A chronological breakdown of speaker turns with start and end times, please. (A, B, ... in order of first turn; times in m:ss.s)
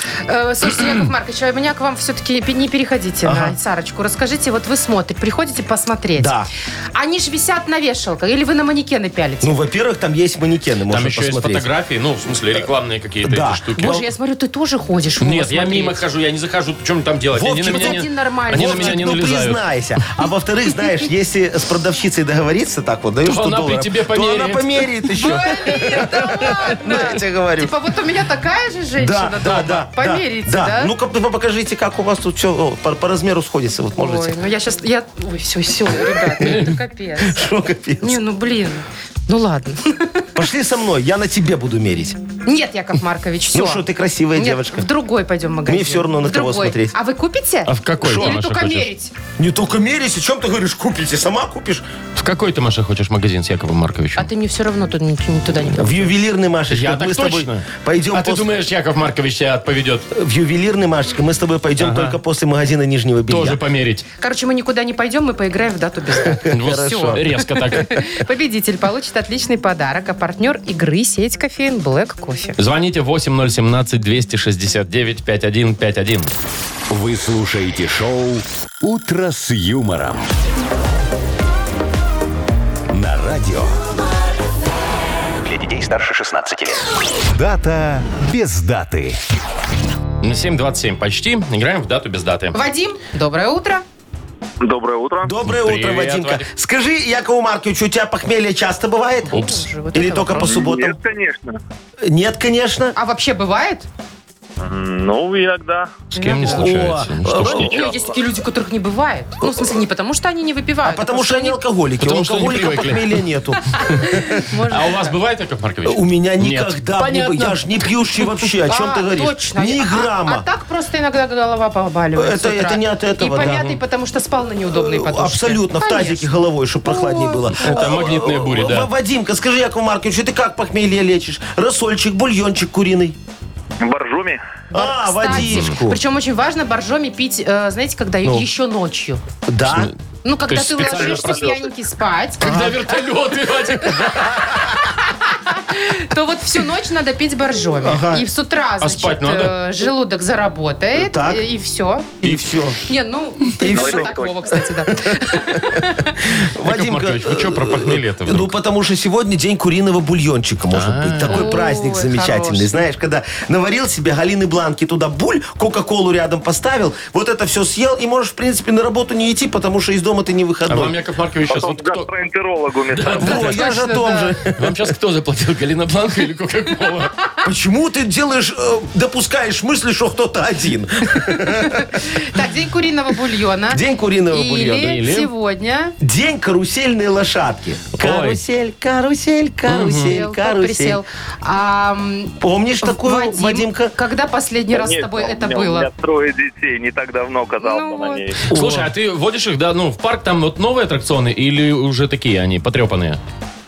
0:00.2-0:09.6 A
0:03.2-0:03.6 B
0:06.2-0:06.5 B
0:09.4-0:11.7 B
0:10.9-0:14.0 C
0:13.2-0:14.0 B
0:13.8-0:16.0 A
0:15.2-0:19.6 C
0:17.3-0:27.7 B
0:17.6-0:19.1 A
0:23.2-0:25.4 C
0:25.2-0:30.9 A
0:29.0-0:34.3 B
0:34.0-0:37.4 A
0:36.2-0:38.2 B
0:36.5-0:36.7 C
0:38.0-0:40.3 A
0:40.3-0:42.2 B
0:42.4-0:49.1 A
0:43.5-0:44.9 B
0:45.6-0:46.9 B
0:47.7-0:48.9 C
0:48.0-0:48.4 B
0:49.4-0:51.8 B
0:52.2-0:54.3 C
0:54.2-0:56.1 A
0:55.7-0:58.5 B
0:56.7-1:00.0 C
1:00.1-1:03.6 B
1:01.8-1:02.2 C
1:03.3-1:04.0 C
1:04.2-1:12.6 A
1:06.1-1:07.2 B
1:06.5-1:08.0 C
1:12.6-1:16.3 C
1:16.9-1:20.3 D
1:22.9-1:23.8 D
1:25.4-1:29.2 D
1:30.2-1:32.6 C
1:32.5-1:33.8 A
1:34.6-1:35.3 E
1:35.2-1:39.4 B
1:35.4-1:36.5 C
1:39.3-1:40.6 A
1:39.3-1:39.6 C
1:39.9-1:41.0 B
1:40.4-1:41.5 E
1:42.0-1:43.0 B
1:43.0-1:43.9 A
1:44.6-1:45.9 E
1:46.1-1:46.7 A
1:46.1-1:47.8 C
1:46.4-1:47.8 B
1:47.4-1:51.6 A
1:47.5-1:47.8 E
1:49.4-1:49.7 B
1:50.8-1:54.4 B
1:52.0-1:53.2 C
1:53.7-1:55.1 A
1:54.7-1:57.8 C
1:55.8-2:00.4 B
1:58.6-2:07.8 A
2:02.2-2:03.8 B
2:04.7-2:13.2 B
2:07.5-2:08.9 C
2:13.8-2:14.4 E
2:14.7-2:16.0 B
2:14.7-2:19.2 A
2:15.3-2:15.7 C
2:19.5-2:19.9 B
2:19.7-2:19.9 C
2:20.2-2:22.6 A
2:20.5-2:21.6 C
2:22.4-2:24.7 C
2:22.4-2:22.8 B
2:23.9-2:32.2 A
2:27.8-2:28.3 B
2:28.8-2:29.6 C
2:30.9-2:31.4 B
2:32.2-2:32.8 B
2:32.8-2:36.3 A
2:33.5-2:51.0 B
2:33.7-2:34.3 E
2:36.6-2:38.5 C
2:40.7-2:41.5 C
2:41.3-2:42.8 A
2:50.7-2:52.1 C
2:51.5-2:53.2 E
2:52.9-2:53.7 C
2:53.2-2:54.8 B
2:53.3-2:54.3 A
2:54.6-2:57.1 C
2:57.4-3:02.0 B
3:01.1-3:06.0 A
3:03.7-3:05.0 B
3:04.7-3:05.3 C
3:06.0-3:11.0 B
3:08.0-3:08.4 C
3:09.7-3:10.2 C
3:09.8-3:15.9 A
3:12.4-3:13.9 B
3:14.7-3:18.4 E
3:17.6-3:18.2 A
3:18.5-3:18.9 B
3:18.5-3:23.2 C